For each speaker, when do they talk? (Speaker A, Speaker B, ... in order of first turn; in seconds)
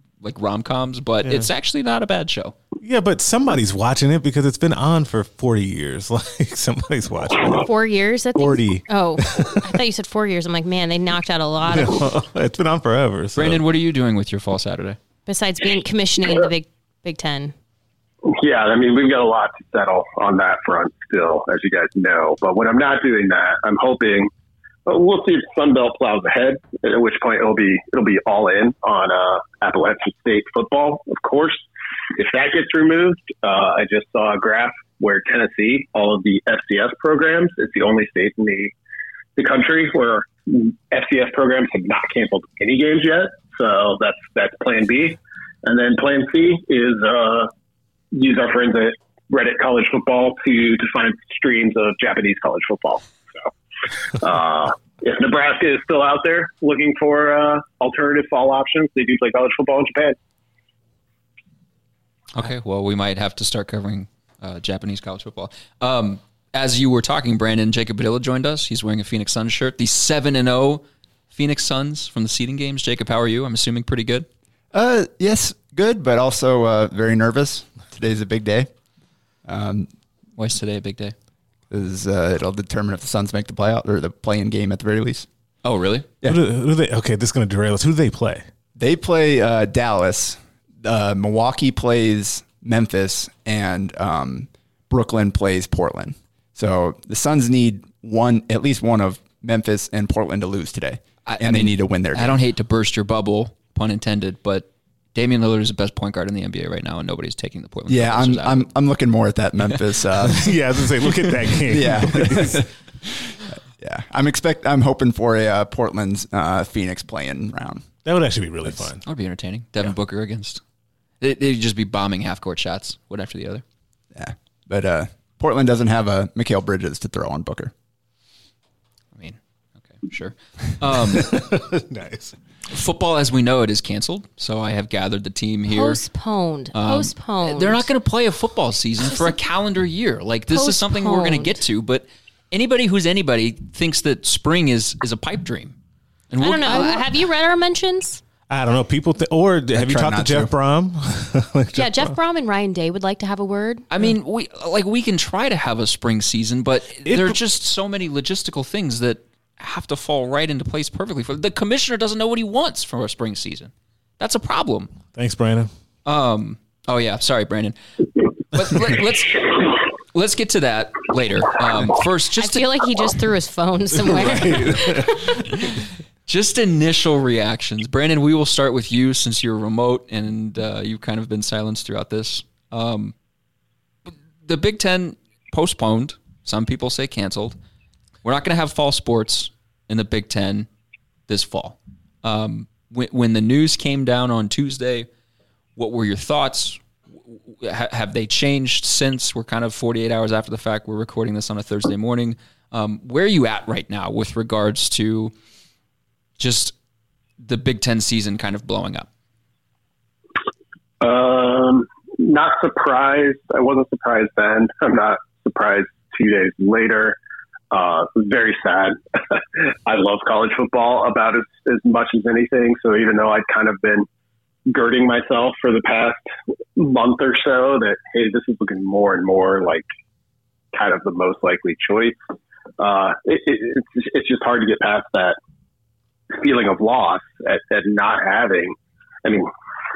Speaker A: 0.2-2.5, 13.4-15.0, 62.3-74.3, 80.4-81.2, 85.6-86.1, 101.3-108.7, 119.1-120.6, 121.2-123.6, 129.2-131.5, 132.7-136.0, 136.7-145.8, 146.3-147.0, 153.9-164.9, 166.1-167.8, 168.5-172.7, 176.3-183.1, 184.1-187.6, 188.2-190.7, 191.3-195.1, 195.8-205.3, 206.4-206.7, 207.4-209.1
Speaker B: 1.2-1.5, 2.8-7.7, 8.4-9.7, 11.7-13.6, 86.2-88.4, 110.2-112.7, 118.0-119.0, 131.1-132.3, 148.5-152.2, 157.1-157.4, 165.2-165.7, 174.0-175.8
Speaker C: 7.5-12.1, 15.3-17.5, 135.7-137.9, 140.5-141.6, 146.4-148.2, 151.8-153.8, 172.4-175.3
Speaker D: 18.3-24.3, 24.9-38.7, 39.4-47.5, 48.1-53.5, 54.2-60.2, 211.0-217.2, 217.7-224.1, 224.7-226.2, 226.8-229.9, 230.7-232.2, 232.8-235.4, 236.3-239.5
Speaker E: 74.7-78.7, 79.5-79.9, 81.7-85.3, 88.8-102.4, 107.9-110.5, 111.7-117.9, 124.1-127.7, 149.7-150.5